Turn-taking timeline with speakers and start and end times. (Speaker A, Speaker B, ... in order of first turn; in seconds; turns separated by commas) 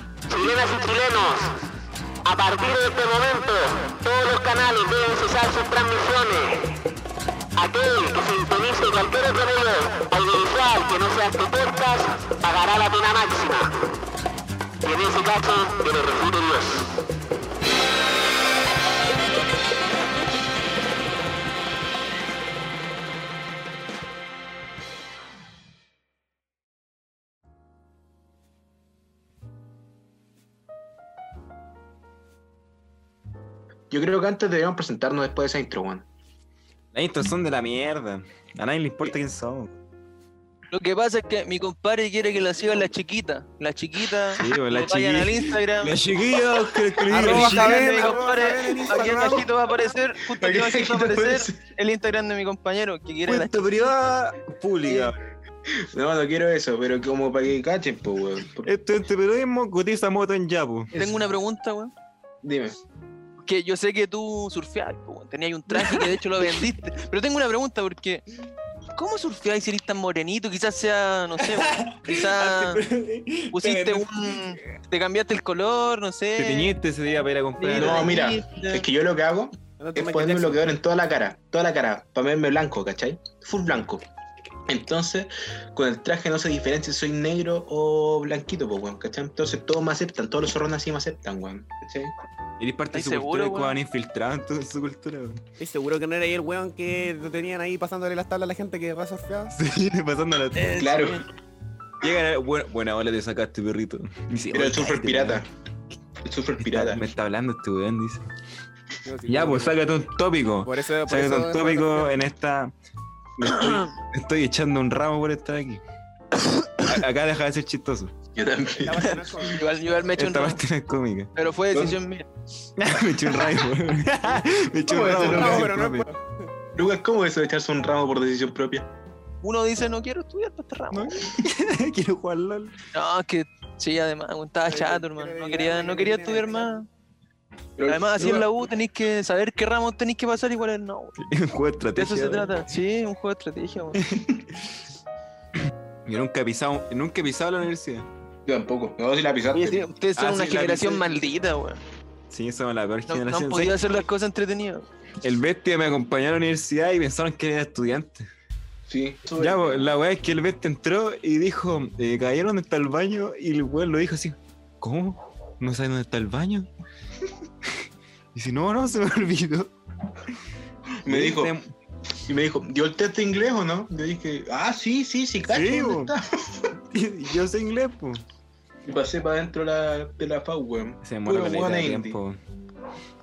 Speaker A: 0.3-1.5, Speaker A: 2.2-6.7, Speaker A: 7.6-13.8, Speaker A: 14.8-16.9, Speaker B: 33.9-36.0, Speaker C: 36.9-39.8, Speaker D: 40.7-46.0, Speaker C: 44.3-49.5, Speaker E: 47.1-49.5, Speaker D: 47.1-53.8, Speaker B: 50.3-51.5, Speaker C: 53.2-55.2, Speaker B: 55.8-58.7, Speaker C: 58.6-60.9, Speaker D: 60.9-61.9, Speaker B: 62.4-62.8, Speaker D: 63.4-68.2, Speaker D: 69.0-72.8, Speaker C: 71.4-74.8, Speaker D: 73.5-76.7, Speaker C: 76.4-78.2, Speaker D: 77.6-78.8, Speaker B: 77.7-84.0, Speaker E: 79.8-80.7, Speaker B: 84.7-92.1, Speaker C: 92.6-95.4, Speaker D: 92.9-93.8, Speaker E: 95.6-99.6, Speaker C: 99.6-101.0, Speaker D: 100.5-101.2, Speaker B: 100.8-101.2, Speaker C: 102.0-105.4, Speaker B: 104.5-105.5, Speaker B: 106.2-107.0, Speaker C: 106.6-108.2, Speaker E: 109.0-109.8, Speaker C: 109.3-112.7, Speaker E: 110.6-112.1, Speaker C: 113.4-115.8, Speaker D: 116.3-116.9, Speaker C: 116.8-118.1, Speaker B: 118.3-119.5, Speaker E: 118.8-119.7, Speaker D: 119.4-120.6, Speaker C: 120.2-121.3, Speaker D: 121.3-122.3, Speaker C: 122.8-126.0, Speaker B: 124.9-125.7, Speaker E: 124.9-126.3, Speaker B: 126.7-128.9, Speaker D: 129.4-131.2, Speaker C: 130.9-132.8, Speaker D: 132.9-136.9, Speaker E: 134.7-136.8, Speaker B: 137.8-138.5, Speaker D: 137.8-141.2, Speaker C: 141.2-142.5, Speaker D: 141.9-144.0, Speaker C: 143.9-144.7, Speaker C: 146.0-148.1, Speaker B: 148.4-149.9, Speaker D: 149.5-151.8, Speaker C: 150.2-151.0, Speaker C: 152.3-153.7, Speaker D: 153.1-154.8, Speaker C: 155.2-158.2, Speaker B: 158.9-159.9, Speaker C: 159.4-166.7, Speaker C: 168.3-169.7, Speaker B: 171.0-171.5, Speaker C: 171.1-171.7, Speaker B: 172.3-176.7, Speaker C: 175.5-176.1, Speaker C: 176.9-178.2, Speaker B: 178.8-182.2, Speaker C: 181.0-182.4